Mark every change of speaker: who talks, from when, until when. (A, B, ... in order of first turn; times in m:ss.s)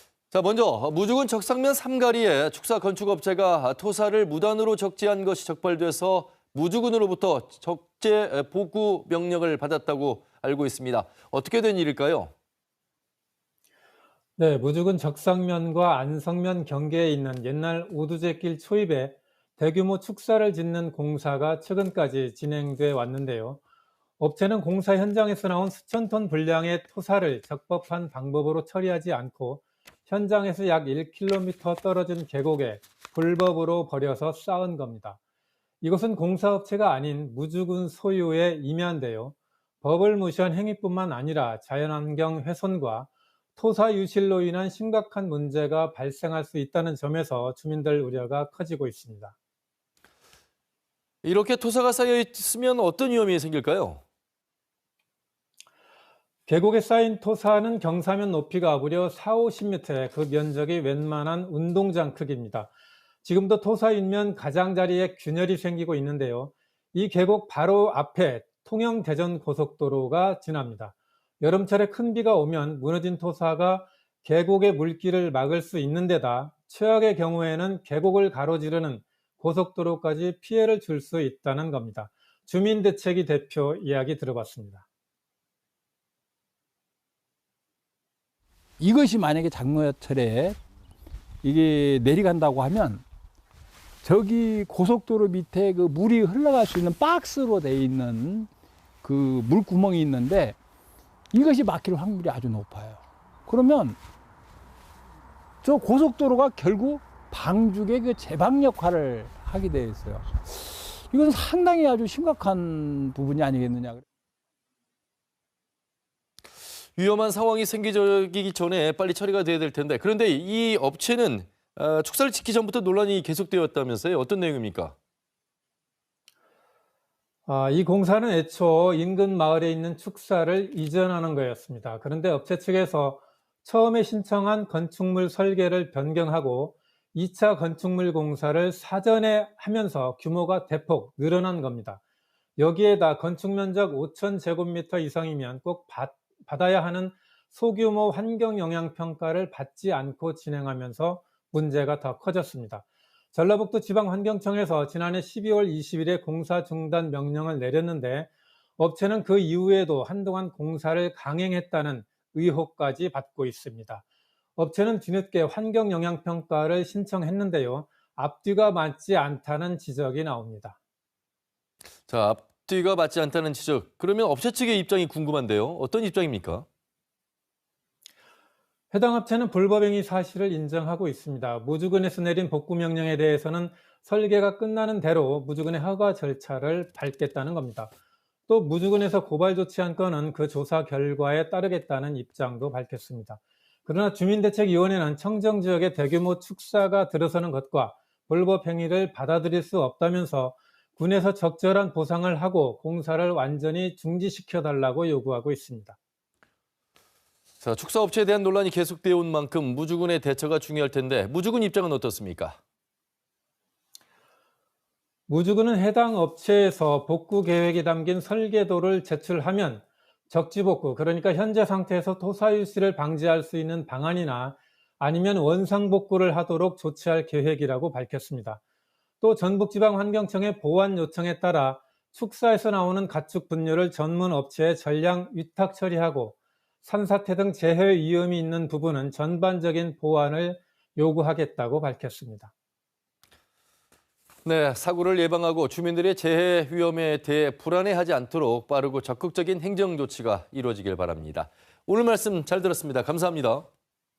0:00.3-0:12.3 A
0:14.4-0:23.6 B
0:24.2-0:35.2 B
0:35.8-0:49.4 B
0:51.2-0:54.0 A
0:56.5-1:02.7 B
1:03.2-1:24.8 B
1:28.8-1:30.6 C
1:31.4-1:33.0 C
1:34.0-1:38.5 C
1:39.0-1:40.6 C
1:41.3-1:44.0 C
1:45.6-1:54.0 C
1:57.0-2:05.0 A
2:07.5-2:22.0 B
2:22.6-2:44.0 B
2:44.6-2:50.8 B
2:52.1-2:56.7 A
2:58.9-3:07.9 B
3:08.5-3:26.0 B
3:27.6-3:32.6 A
3:35.3-3:48.6 B
3:49.2-4:02.5 B
4:04.4-4:13.7 A